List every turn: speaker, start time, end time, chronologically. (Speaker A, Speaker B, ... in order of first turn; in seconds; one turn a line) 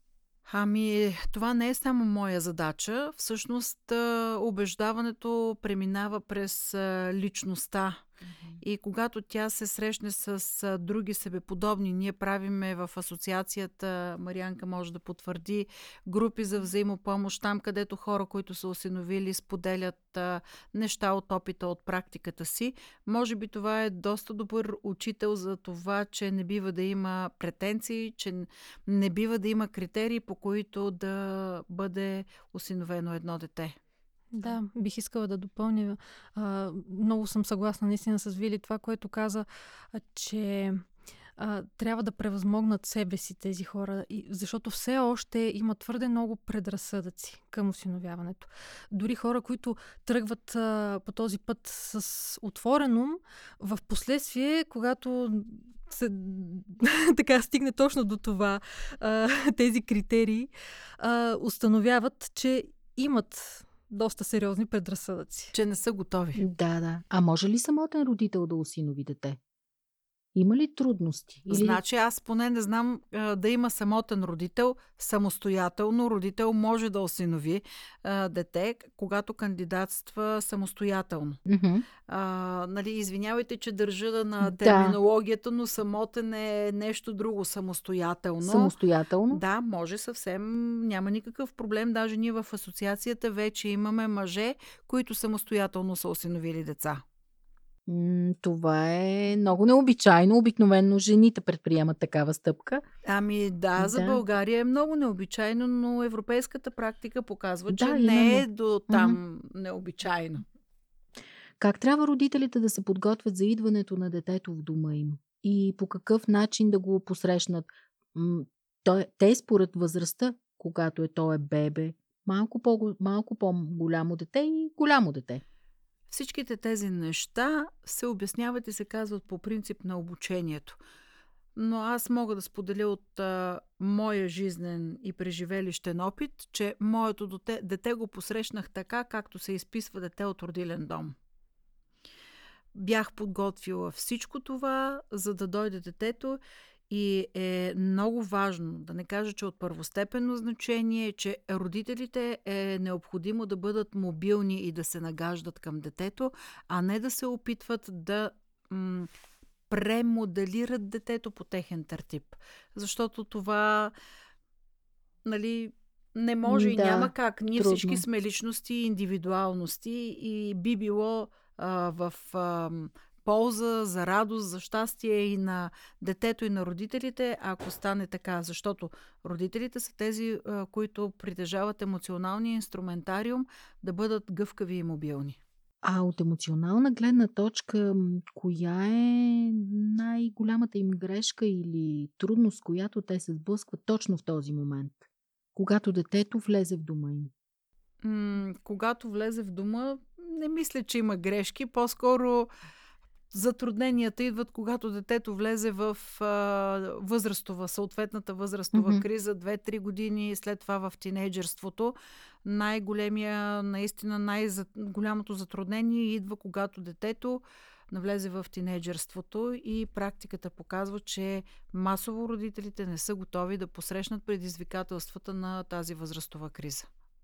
Speaker A: 0.5-8.0
Speaker A: 8.6-33.8
Speaker B: 34.3-40.9
Speaker B: 41.4-65.5
Speaker A: 65.5-66.4
Speaker C: 66.4-69.4
Speaker C: 70.3-71.8
Speaker A: 71.5-81.4
Speaker C: 81.5-81.9
Speaker A: 82.1-88.7
Speaker C: 84.4-85.0
Speaker C: 88.4-89.4
Speaker A: 89.3-97.0
Speaker C: 97.9-102.8
Speaker A: 103.0-110.4
Speaker C: 103.8-104.2
Speaker C: 107.7-109.2
Speaker C: 111.6-125.4
Speaker A: 126.1-130.8
Speaker A: 131.6-141.1
Speaker A: 142.7-146.4
Speaker A: 146.9-159.1
Speaker A: 159.7-163.9
Speaker A: 165.2-185.4
Speaker C: 166.4-168.0
Speaker C: 185.8-195.0
Speaker C: 195.5-197.3
Speaker A: 198.0-202.5
Speaker A: 203.3-226.9
Speaker C: 208.7-209.0